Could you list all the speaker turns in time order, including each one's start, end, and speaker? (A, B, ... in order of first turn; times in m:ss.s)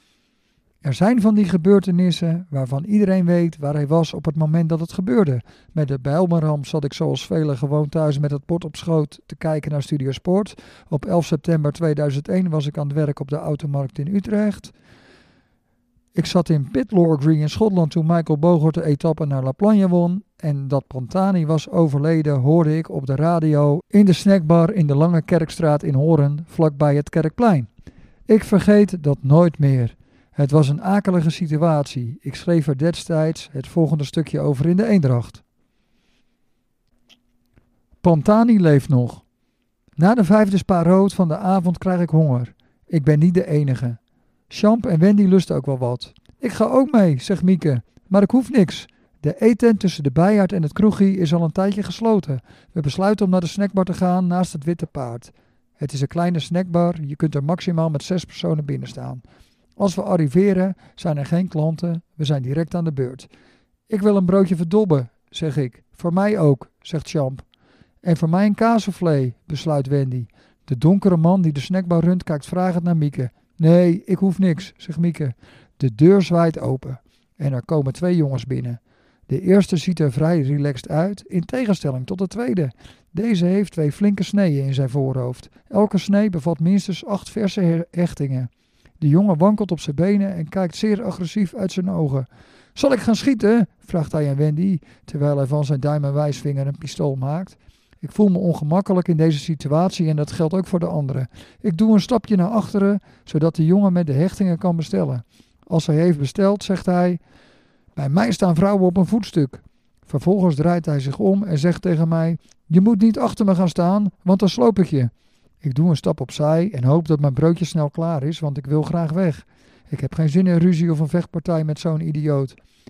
0:00.8-0:14.7 A
0:16.1-0:27.7 A
0:28.3-0:35.4 A
0:38.0-0:39.2 A
0:40.0-0:44.0 A
0:44.5-0:59.2 A
0:59.8-1:03.3 A
1:03.9-1:07.4 A
1:08.0-1:28.5 A
1:29.0-1:47.2 A
1:47.9-1:55.1 A
1:55.6-2:02.6 A